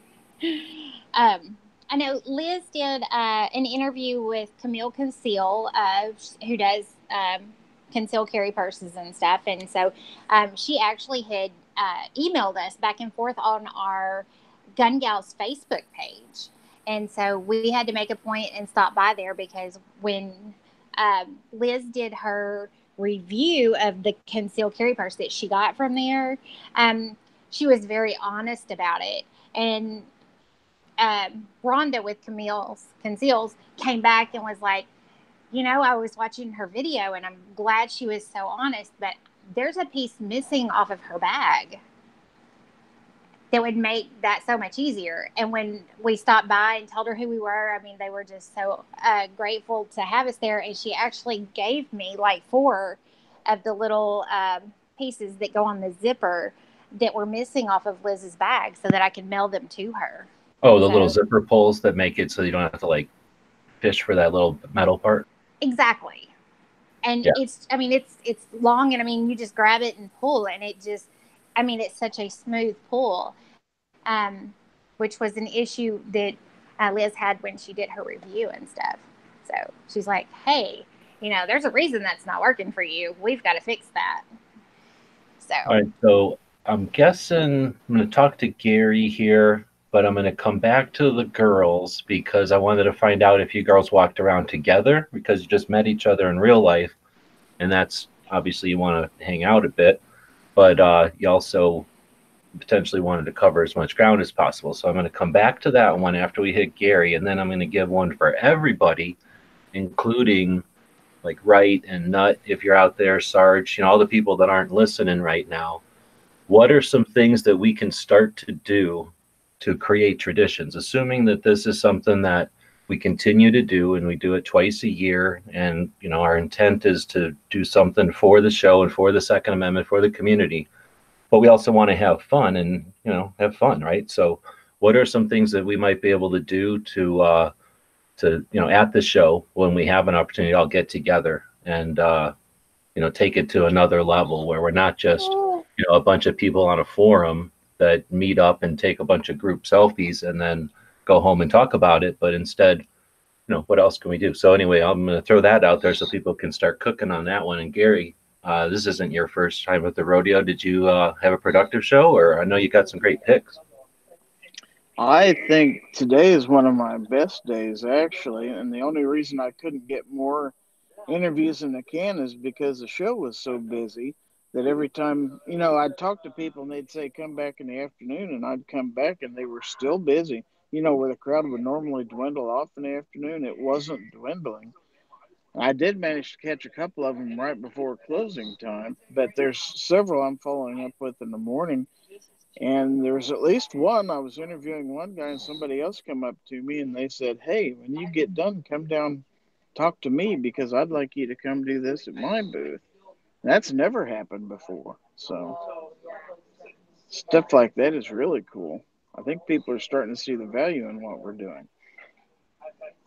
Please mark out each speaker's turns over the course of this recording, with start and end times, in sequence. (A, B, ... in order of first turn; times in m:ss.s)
0:00.4-0:30.1 A
0:31.0-0:34.9 A
0:35.5-0:41.8 A
0:43.5-1:00.3 A
1:00.6-1:03.1 B
1:00.8-1:01.2 A
1:03.8-1:05.2 B
1:05.6-1:06.3 A
1:07.0-1:13.3 A
1:14.0-1:24.2 A
1:25.4-1:25.7 A
1:25.6-1:36.9 B
1:37.6-1:40.0 B
1:40.6-1:41.9 B
1:42.6-1:49.2 B
1:49.7-1:50.6 B
1:51.2-1:55.8 B
1:56.5-2:10.7 B
2:11.3-2:17.5 B
2:18.2-2:22.3 B
2:22.9-2:32.8 B
2:25.2-2:25.6 A
2:33.5-2:43.6 B
2:45.0-2:50.5 C
2:51.1-3:04.7 C
3:05.5-3:11.9 C
3:12.6-3:19.2 C
3:19.7-3:22.8 C
3:23.4-3:25.6 C
3:27.1-3:31.7 C